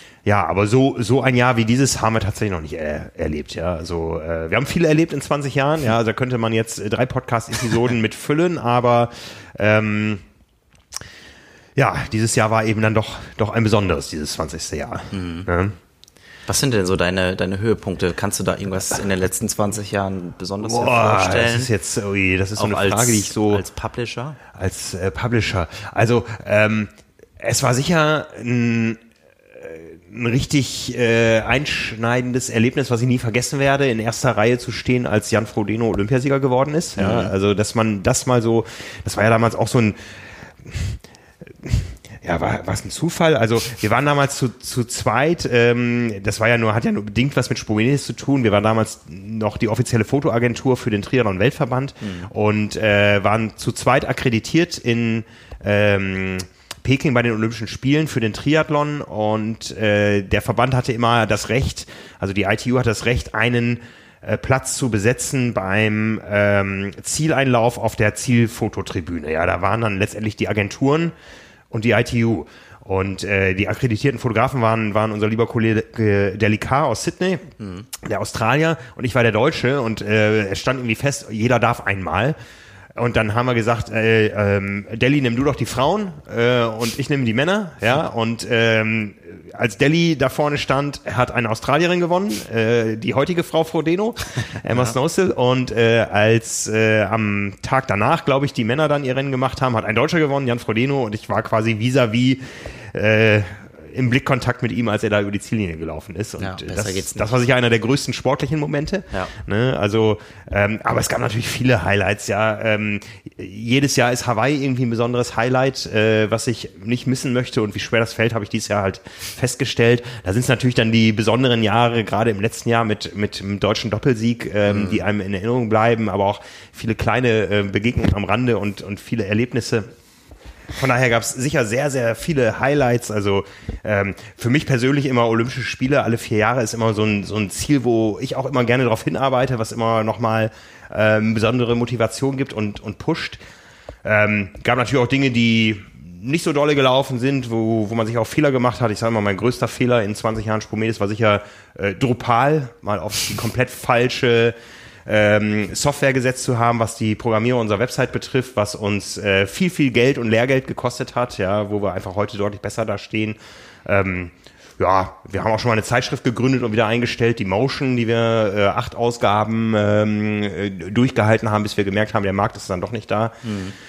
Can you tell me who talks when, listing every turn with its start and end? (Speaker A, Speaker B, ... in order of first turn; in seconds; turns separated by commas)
Speaker A: 0.2-10.2, Speaker A: 11.8-15.8, Speaker B: 15.1-15.5, Speaker B: 16.5-21.7, Speaker A: 20.6-23.6, Speaker B: 22.6-24.4, Speaker A: 24.5-29.0, Speaker A: 29.5-40.0, Speaker B: 37.0-37.3, Speaker A: 40.6-41.0, Speaker A: 41.6-71.1, Speaker B: 52.0-52.3, Speaker A: 71.7-82.4, Speaker B: 77.6-77.9, Speaker A: 83.0-129.9, Speaker B: 106.4-107.3, Speaker B: 124.7-125.0, Speaker A: 130.8-143.4, Speaker A: 144.0-173.4, Speaker B: 173.4-173.8